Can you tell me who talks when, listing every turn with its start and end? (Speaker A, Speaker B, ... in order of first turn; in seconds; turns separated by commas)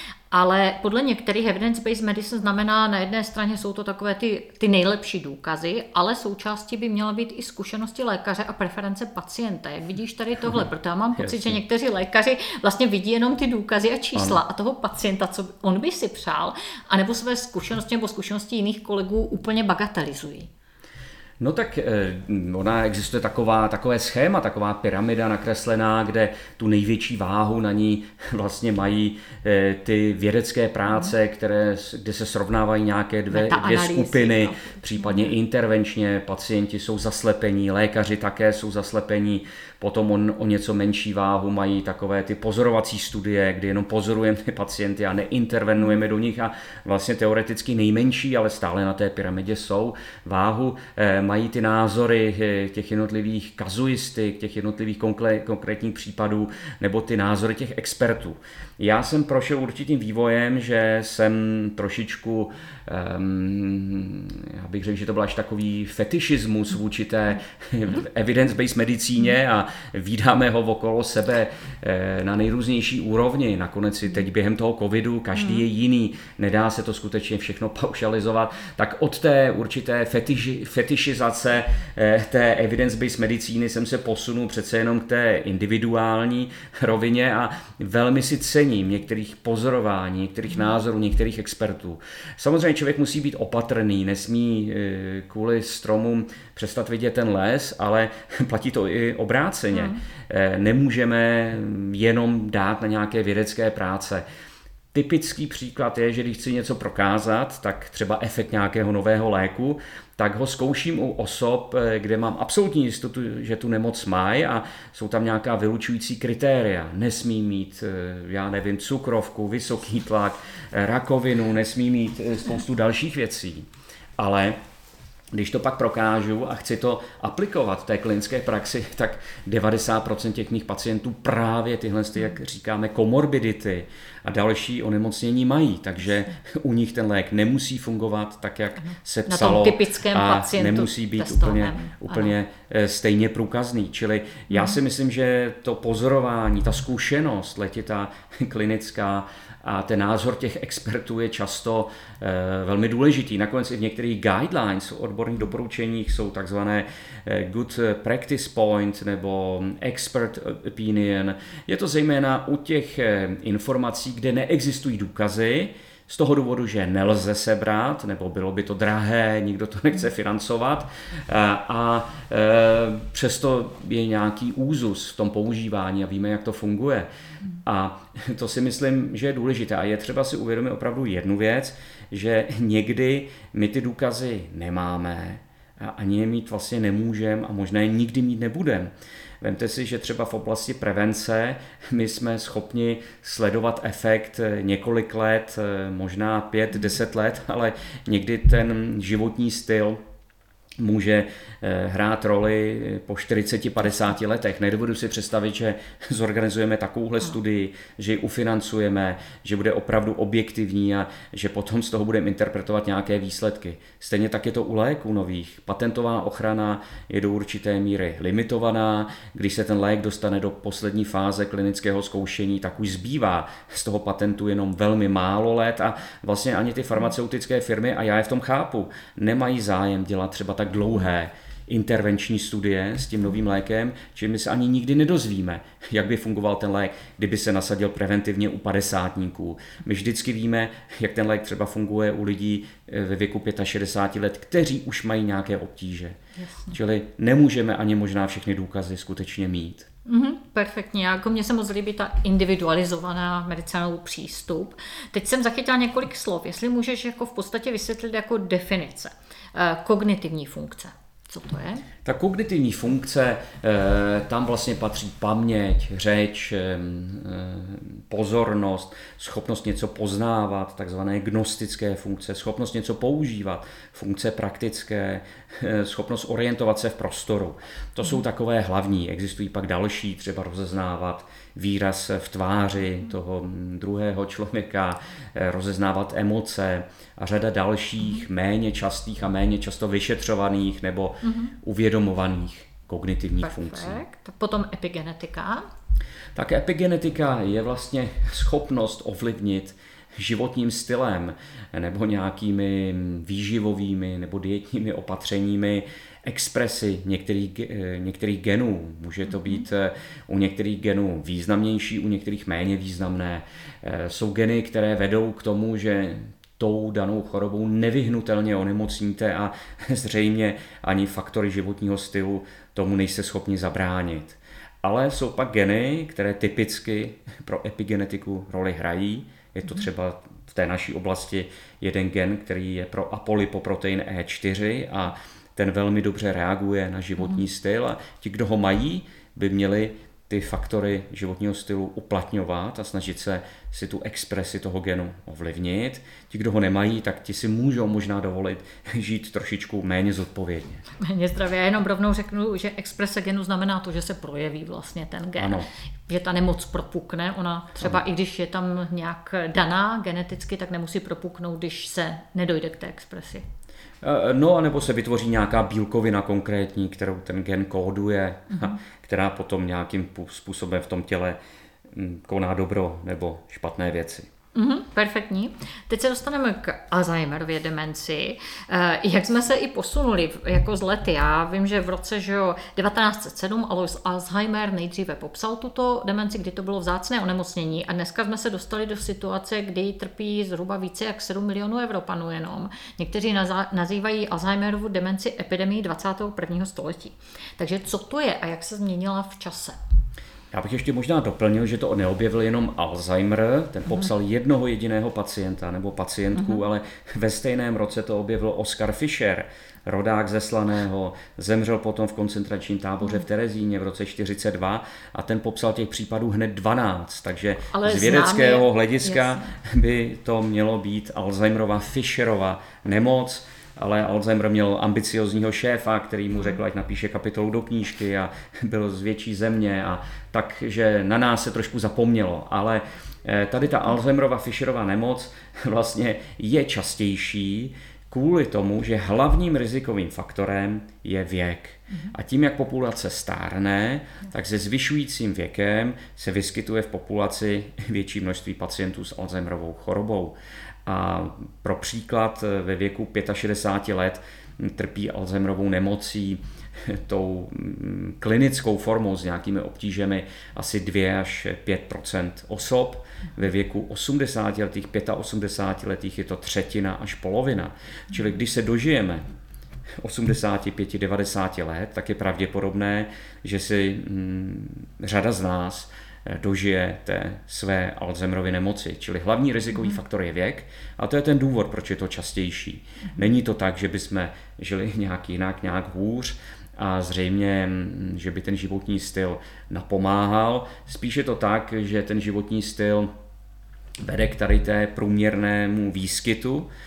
Speaker A: 0.3-20.5, Speaker B: 11.2-11.6, Speaker B: 21.4-104.2, Speaker A: 33.3-35.3, Speaker A: 75.4-75.6, Speaker A: 99.7-100.0, Speaker B: 104.9-123.7, Speaker B: 124.2-124.6, Speaker B: 125.3-177.1, Speaker A: 139.3-142.3, Speaker A: 144.5-144.8, Speaker B: 177.6-200.0, Speaker B: 200.8-246.2, Speaker A: 246.4-246.7, Speaker B: 246.7-249.9, Speaker A: 250.1-261.8, Speaker B: 262.0-294.0, Speaker A: 291.2-291.5, Speaker A: 293.4-295.6, Speaker B: 296.3-350.8, Speaker A: 351.0-363.4, Speaker B: 355.4-355.6, Speaker B: 364.0-371.4, Speaker B: 371.9-374.3, Speaker A: 374.5-399.8, Speaker B: 400.5-469.2, Speaker A: 406.4-406.6, Speaker A: 417.7-419.4, Speaker B: 470.0-493.1, Speaker B: 494.0-496.7